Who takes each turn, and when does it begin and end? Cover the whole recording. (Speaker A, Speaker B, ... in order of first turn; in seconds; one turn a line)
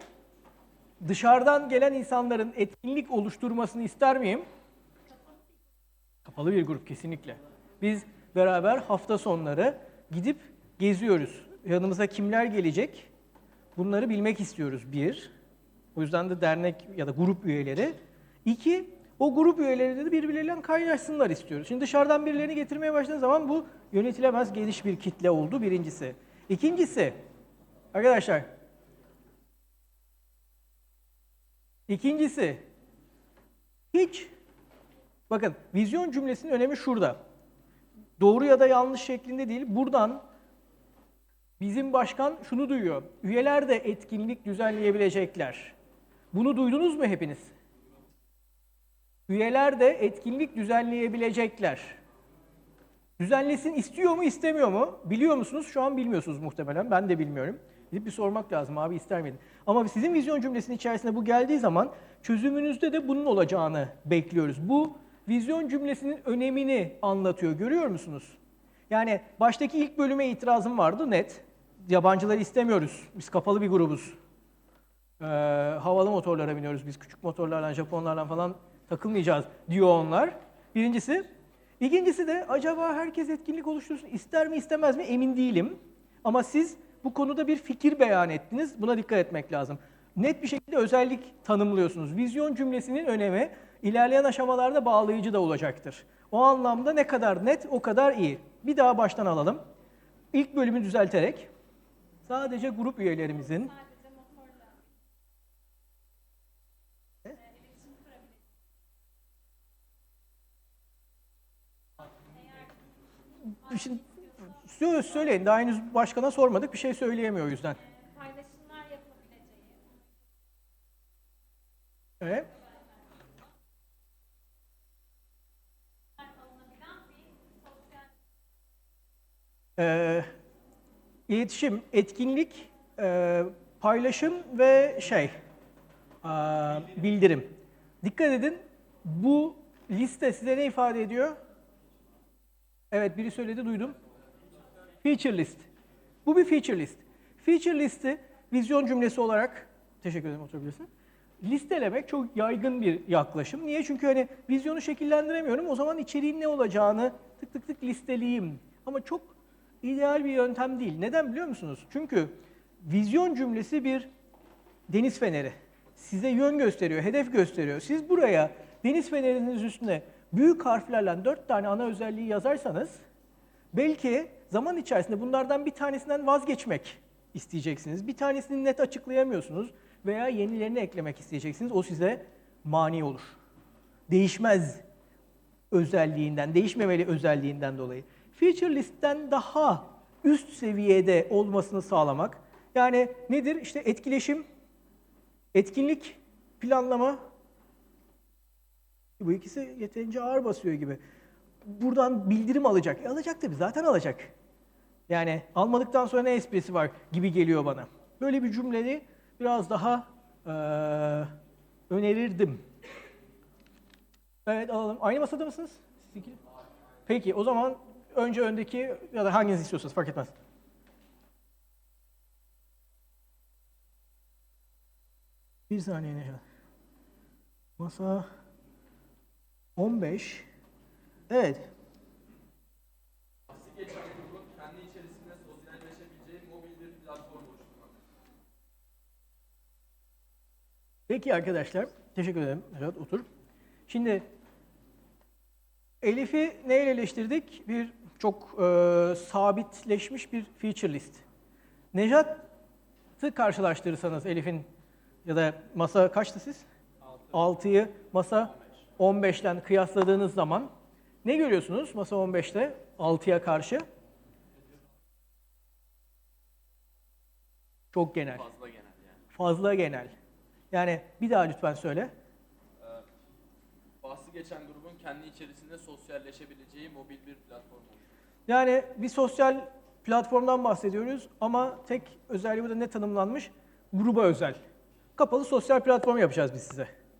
Speaker A: 1.0-4.5
Speaker A: 6.2-13.1
Speaker A: 13.8-15.3
Speaker A: 16.0-27.2
Speaker A: 27.9-28.5
Speaker A: 31.9-32.6
Speaker A: 33.9-34.3
Speaker A: 35.3-37.2
Speaker A: 38.2-40.2
Speaker A: 41.6-45.8
Speaker A: 46.3-47.5
Speaker A: 49.3-52.0
Speaker A: 53.2-68.4
Speaker A: 68.9-74.2
Speaker A: 75.2-81.3
Speaker A: 81.8-99.6
Speaker A: 100.3-101.5
Speaker A: 102.3-103.7
Speaker B: 103.7-104.9
Speaker B: 107.3-108.5
Speaker B: 112.3-112.7
Speaker A: 113.7-114.0
Speaker B: 113.7-114.5
Speaker A: 114.6-117.8
Speaker B: 117.8-120.0
Speaker A: 122.2-122.5
Speaker B: 126.2-128.1
Speaker A: 129.8-130.3
Speaker A: 131.3-135.3
Speaker A: 136.2-141.4
Speaker A: 142.9-143.9
Speaker A: 145.0-145.7
Speaker A: 146.2-150.9
Speaker A: 151.4-164.1
Speaker A: 164.9-173.0
Speaker A: 173.7-183.4
Speaker A: 184.1-184.8
Speaker A: 185.7-194.4
Speaker A: 195.5-197.2
Speaker A: 199.2-201.0
Speaker A: 201.7-204.3
Speaker A: 205.1-211.3
Speaker A: 211.9-212.6
Speaker A: 214.5-216.4
Speaker A: 217.1-220.3
Speaker A: 225.7-226.4
Speaker A: 227.8-228.3
Speaker A: 229.8-230.5
Speaker A: 231.3-231.7
Speaker C: 233.5-237.9
Speaker A: 241.1-243.3
Speaker A: 243.9-244.2
Speaker A: 246.0-251.2
Speaker A: 251.9-252.4
Speaker A: 253.2-254.7
Speaker A: 255.2-256.7
Speaker A: 257.3-260.7
Speaker A: 261.2-263.9
Speaker A: 267.9-268.4
Speaker C: 268.2-269.2
Speaker A: 269.3-270.1
Speaker A: 270.7-272.1
Speaker C: 272.8-273.1
Speaker C: 274.0-278.1
Speaker A: 278.5-284.6
Speaker A: 285.2-286.9